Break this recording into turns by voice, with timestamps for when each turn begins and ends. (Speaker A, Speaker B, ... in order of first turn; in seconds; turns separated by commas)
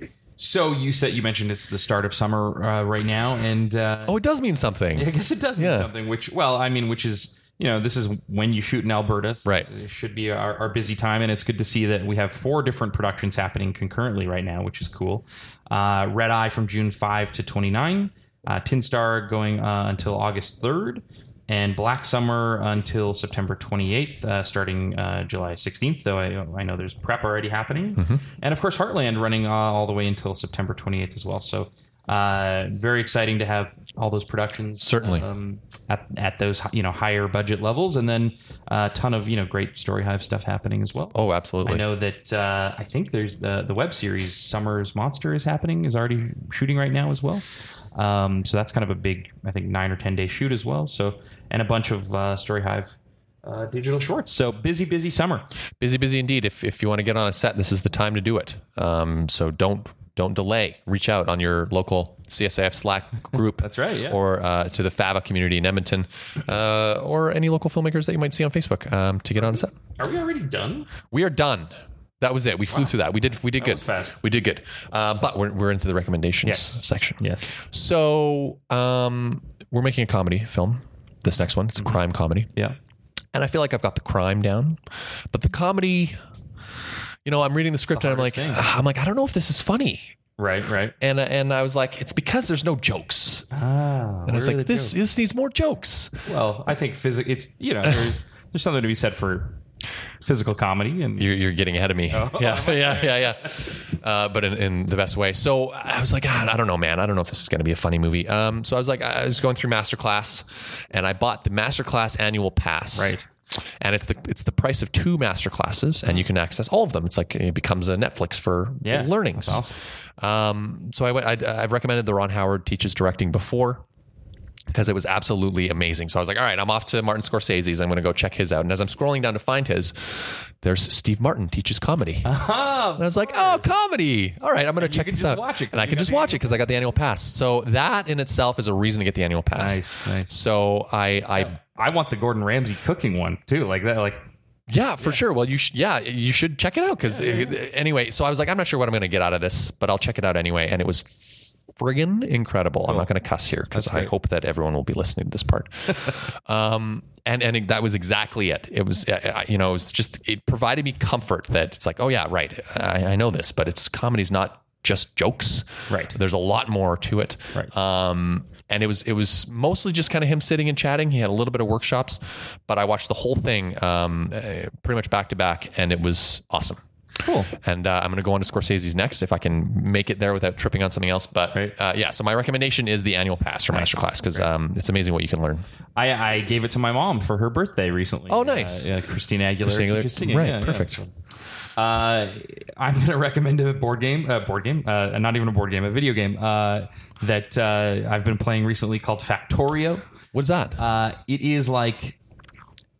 Speaker A: 0.4-4.2, Speaker B: 4.0-5.9, Speaker A: 4.9-55.5, Speaker B: 34.8-35.2, Speaker B: 41.1-41.8, Speaker B: 55.8-69.7, Speaker A: 63.6-64.2, Speaker A: 69.4-70.9, Speaker B: 71.1-82.5, Speaker A: 73.6-74.2, Speaker A: 76.4-77.5, Speaker B: 83.3-84.8, Speaker B: 85.3-86.2, Speaker B: 87.2-90.1, Speaker A: 87.9-88.7, Speaker A: 90.4-90.9, Speaker B: 91.0-93.5, Speaker A: 93.5-95.0, Speaker B: 94.3-96.2, Speaker A: 96.2-99.6, Speaker A: 100.2-101.3, Speaker B: 101.2-113.2, Speaker A: 102.1-103.7, Speaker A: 112.9-113.2, Speaker B: 113.8-119.6, Speaker A: 118.8-119.8, Speaker B: 120.2-123.8, Speaker B: 124.7-132.3, Speaker A: 132.2-133.7, Speaker B: 133.0-141.5, Speaker A: 134.8-136.9, Speaker A: 139.5-140.3, Speaker A: 141.3-144.3, Speaker B: 144.7-176.8, Speaker A: 147.0-147.5, Speaker A: 153.7-154.1, Speaker A: 165.9-166.2, Speaker A: 177.2-177.5, Speaker B: 177.6-185.6, Speaker A: 183.7-184.5, Speaker A: 185.9-191.1, Speaker B: 188.3-188.9, Speaker B: 189.6-191.0, Speaker A: 191.8-200.0, Speaker B: 200.3-200.8, Speaker A: 200.8-202.2